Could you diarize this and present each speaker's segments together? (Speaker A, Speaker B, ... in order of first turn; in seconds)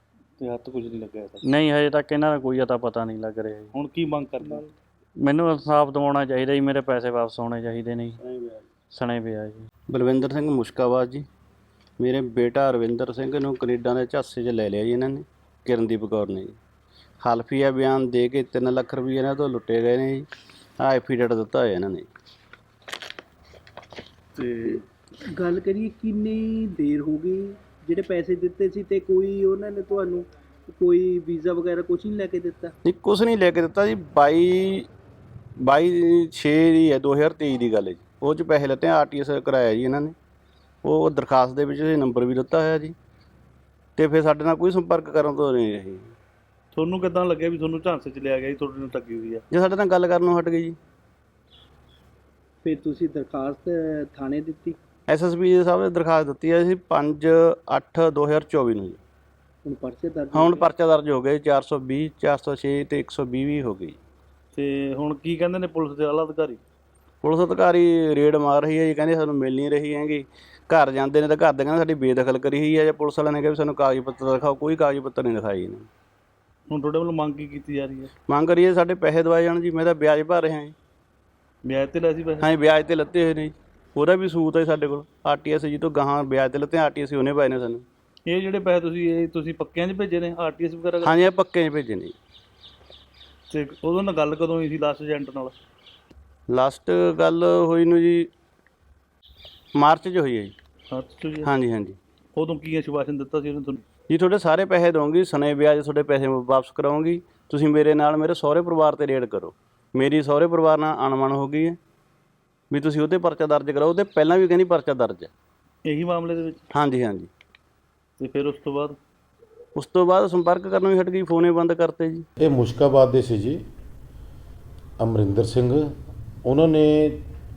Speaker A: 0.4-1.4, 3.7-4.6, 24.4-24.8, 46.7-49.4, 64.5-66.6, 76.7-78.1, 81.6-82.5, 88.3-91.2, 93.5-95.5, 100.9-101.5, 102.3-103.8, 115.8-116.6, 118.2-119.0
Speaker B: 1.4-3.7, 5.2-8.2, 8.9-9.6
Speaker C: 4.4-4.7, 25.3-32.7, 52.6-54.8, 59.6-60.7
Speaker D: 8.2-8.6, 9.9-11.2, 12.0-16.6, 17.2-20.3, 20.8-22.1, 32.8-34.9, 35.6-40.1, 40.8-42.9, 44.0-46.1, 49.5-50.8, 55.1-59.0, 60.3-64.0, 67.2-75.9, 78.3-80.7, 82.4-87.8, 91.0-92.1, 96.5-98.3, 99.7-100.5, 101.4-102.0, 104.1-111.8, 112.7-115.3, 116.7-117.3, 119.7-122.2
Speaker E: 122.4-123.6, 125.0-125.9, 126.4-127.2